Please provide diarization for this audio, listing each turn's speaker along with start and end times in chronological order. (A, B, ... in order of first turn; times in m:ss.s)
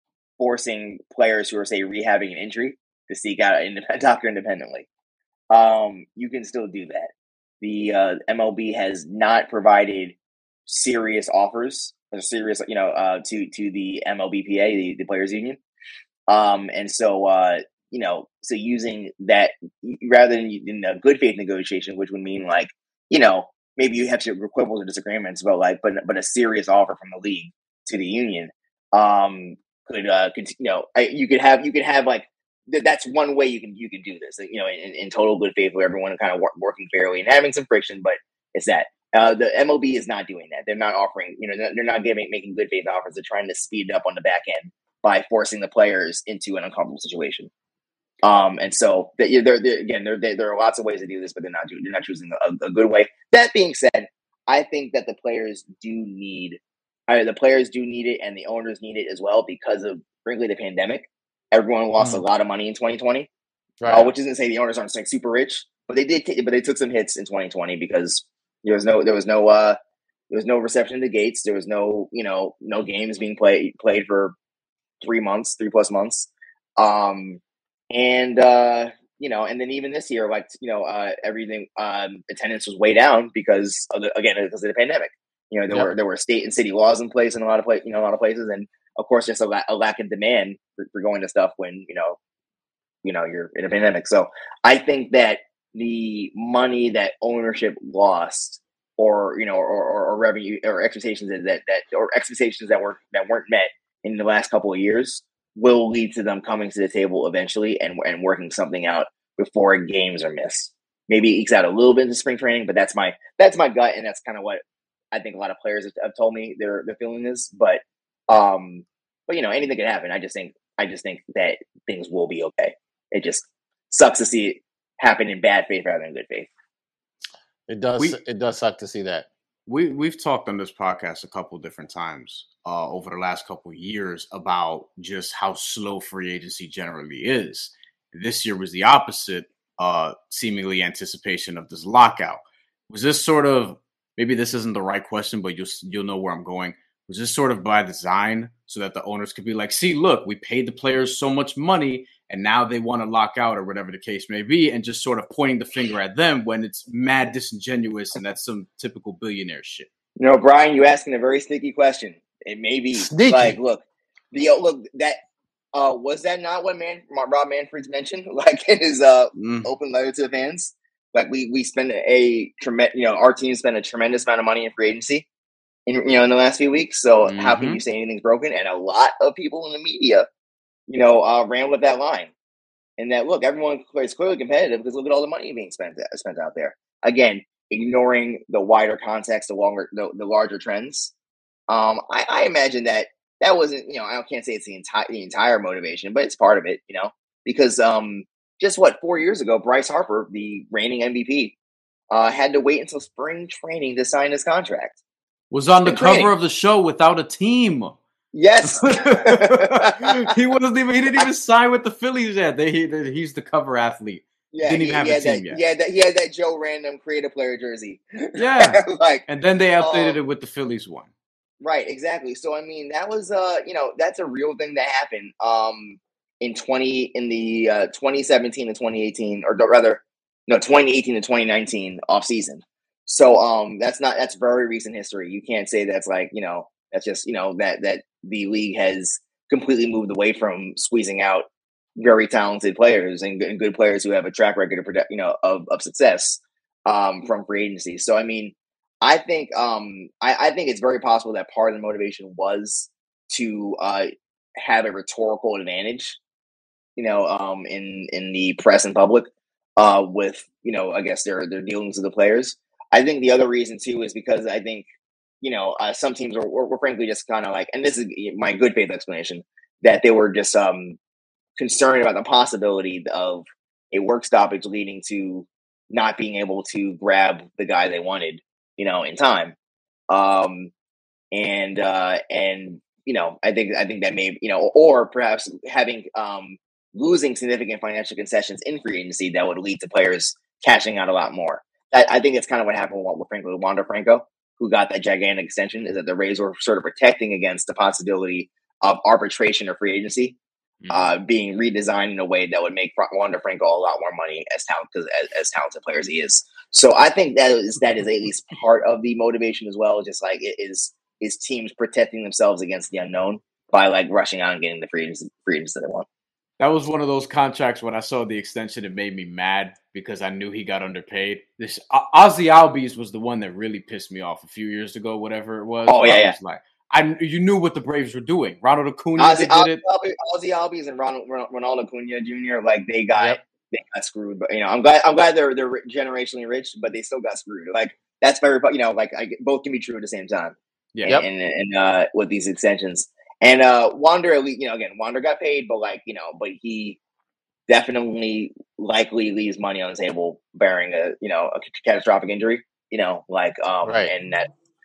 0:00.4-0:04.9 A
0:05.5-0:10.2 A
0:10.7-0:15.6 A
0:16.3-0:47.5 A
0:48.2-1:03.3 A
1:03.8-1:04.1 B
1:03.9-1:09.8 A
1:10.3-1:14.4 A
1:15.0-1:17.4 A
1:17.9-1:32.2 A
1:33.0-1:54.6 A
1:55.1-2:06.5 A
2:07.7-2:09.3 B
2:09.7-2:39.9 C
2:40.2-2:45.2 A
2:42.9-2:43.6 B
2:45.7-2:55.3 A
2:49.4-2:49.7 C
2:55.9-3:00.3 A
2:57.3-2:57.8 C
3:00.9-3:02.3 A
3:03.0-3:11.1 A
3:11.7-3:21.6 A
3:22.1-3:25.0 A
3:25.5-3:28.0 C
3:25.8-3:26.3 A
3:28.3-3:30.3 A
3:28.6-3:35.6 C
3:34.5-3:39.2 A
3:38.4-3:41.1 C
3:39.8-3:40.2 A
3:41.6-4:16.2 A
4:17.0-4:24.8 A
4:25.4-4:31.0 A
4:31.6-4:39.6 A
4:40.1-4:40.7 A
4:41.3-5:00.4 A
5:00.8-5:01.1 C
5:00.9-5:16.1 A
5:16.6-5:29.8 C
5:25.9-5:26.4 A
5:29.2-5:40.6 A
5:41.0-5:41.2 C
5:41.1-5:47.0 A
5:47.7-5:54.5 A
5:53.8-5:54.1 B